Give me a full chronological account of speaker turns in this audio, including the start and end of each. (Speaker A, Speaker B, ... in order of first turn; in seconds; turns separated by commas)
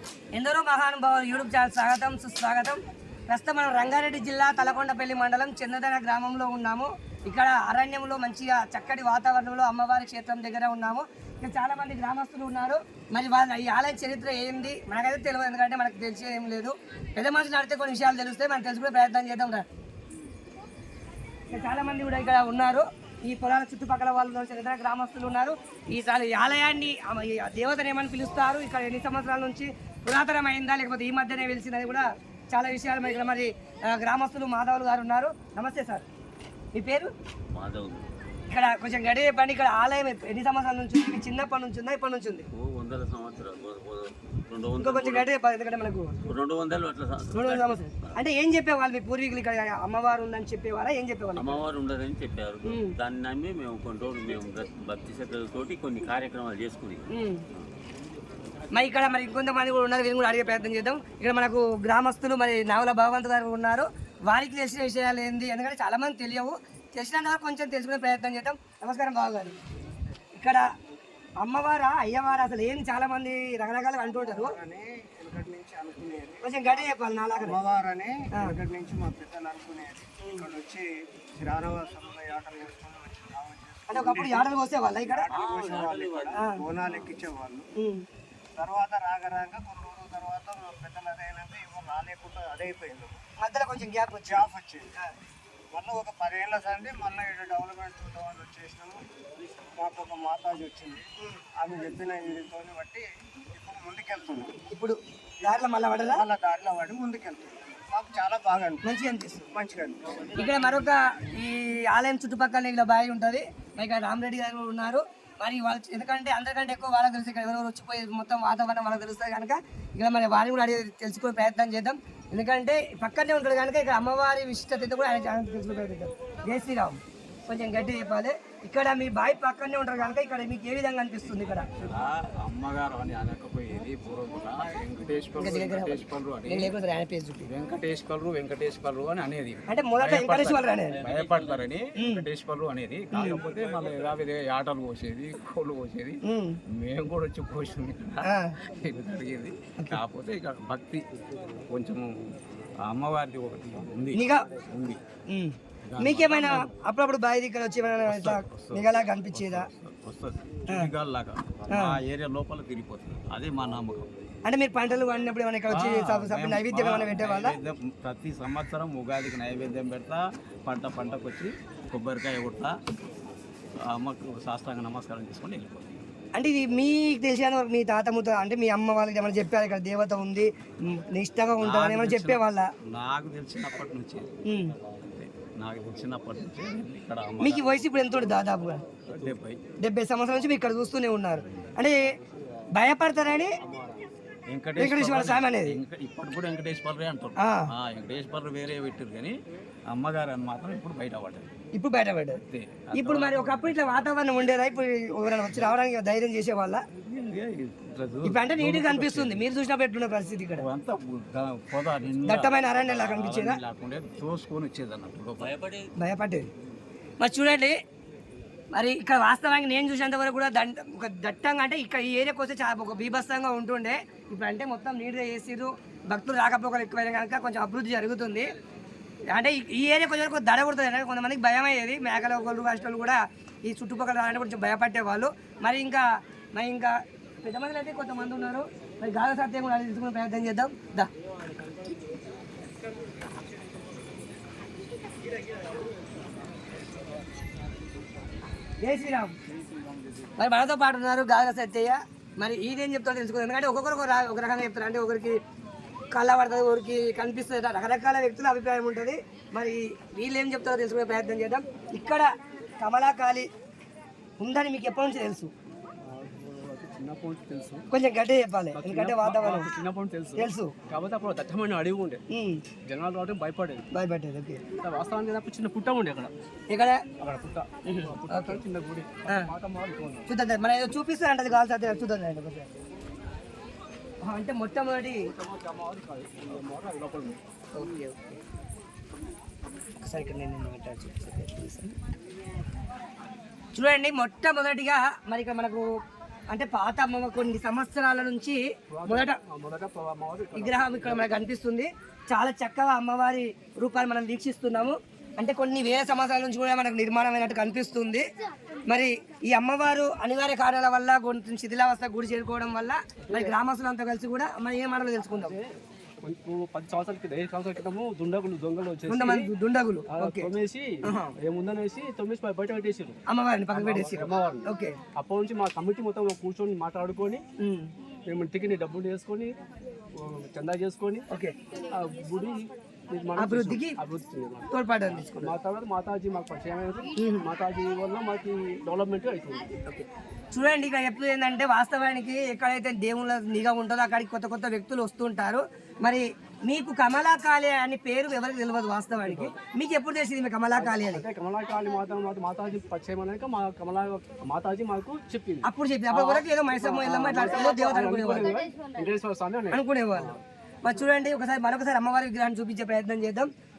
Speaker A: 0.3-19.6, Speaker A: 21.5-36.0, Speaker A: 36.7-37.1, Speaker B: 37.5-38.1, Speaker A: 38.5-42.5, Speaker B: 42.5-45.3, Speaker A: 44.8-46.2, Speaker B: 46.2-48.1, Speaker A: 47.3-51.6, Speaker B: 51.4-57.0, Speaker A: 52.6-53.0, Speaker A: 57.1-57.4, Speaker A: 58.7-69.5, Speaker A: 70.4-70.7, Speaker A: 71.4-74.5, Speaker C: 74.1-76.8, Speaker A: 76.4-77.6, Speaker C: 77.4-84.5, Speaker A: 80.2-80.5, Speaker A: 83.9-85.3, Speaker C: 85.1-87.7, Speaker B: 85.3-87.1, Speaker A: 86.3-86.6, Speaker A: 87.8-88.0, Speaker C: 88.6-93.2, Speaker A: 93.4-94.5, Speaker C: 94.2-94.9, Speaker C: 95.7-99.0, Speaker C: 99.8-101.0, Speaker C: 101.5-104.6, Speaker A: 104.7-106.2, Speaker C: 105.5-108.8, Speaker A: 108.8-109.5, Speaker C: 109.5-110.4, Speaker A: 110.3-131.7, Speaker D: 131.7-136.7, Speaker A: 135.4-137.5, Speaker D: 137.5-146.2, Speaker A: 139.7-141.0, Speaker B: 140.9-141.7, Speaker A: 142.0-142.2, Speaker A: 143.1-143.4, Speaker B: 143.3-144.0, Speaker A: 146.2-146.6, Speaker D: 146.7-151.0, Speaker A: 148.2-148.6, Speaker D: 151.7-155.0, Speaker A: 154.1-154.5, Speaker A: 155.3-159.7, Speaker D: 155.8-156.7, Speaker D: 158.0-164.1, Speaker A: 161.7-162.0, Speaker A: 164.4-167.6, Speaker D: 165.7-172.7, Speaker D: 173.9-176.0, Speaker A: 176.3-182.7, Speaker D: 181.6-184.3, Speaker A: 184.4-184.7, Speaker D: 185.1-188.4, Speaker A: 187.4-188.8, Speaker D: 189.1-189.6, Speaker A: 189.8-192.1, Speaker D: 191.3-191.7, Speaker A: 192.7-193.6, Speaker E: 193.6-194.0, Speaker D: 194.5-199.3, Speaker A: 194.8-195.8, Speaker A: 197.4-197.7, Speaker D: 199.9-201.5, Speaker A: 201.7-202.4, Speaker D: 202.5-204.1, Speaker A: 202.9-206.8, Speaker D: 207.0-209.4, Speaker A: 208.2-210.7, Speaker D: 210.6-215.5, Speaker A: 212.2-213.6, Speaker B: 215.4-215.9, Speaker A: 216.0-216.5, Speaker A: 217.2-217.8, Speaker A: 218.7-228.5, Speaker A: 229.3-241.1, Speaker A: 248.8-249.3, Speaker A: 250.4-255.4, Speaker A: 256.1-263.5, Speaker A: 264.4-265.5, Speaker E: 266.0-267.9, Speaker A: 267.9-269.7, Speaker E: 268.7-272.2, Speaker A: 270.4-270.7, Speaker A: 272.3-272.6, Speaker E: 272.8-273.8, Speaker A: 273.9-274.6, Speaker E: 274.7-276.3, Speaker A: 276.7-277.0, Speaker E: 277.2-280.3, Speaker A: 277.8-278.6, Speaker A: 279.2-279.5, Speaker A: 280.3-282.7, Speaker A: 284.2-285.3, Speaker E: 285.2-287.4, Speaker A: 287.7-288.3, Speaker A: 290.0-291.9, Speaker A: 293.7-295.9, Speaker A: 296.5-299.4, Speaker E: 298.9-301.3, Speaker A: 300.5-308.2, Speaker A: 308.9-315.6, Speaker E: 313.2-313.6, Speaker E: 315.4-319.5, Speaker A: 319.1-320.5, Speaker E: 320.1-323.2, Speaker A: 321.0-321.3, Speaker A: 323.3-324.9, Speaker E: 323.7-327.4, Speaker A: 327.6-327.9, Speaker E: 328.3-329.6, Speaker E: 330.1-331.3, Speaker E: 331.8-339.8, Speaker A: 333.4-334.0, Speaker A: 334.7-335.5, Speaker A: 337.1-337.5, Speaker A: 339.8-351.2, Speaker E: 349.2-349.6, Speaker E: 350.7-360.4, Speaker A: 355.6-358.5, Speaker A: 359.7-363.5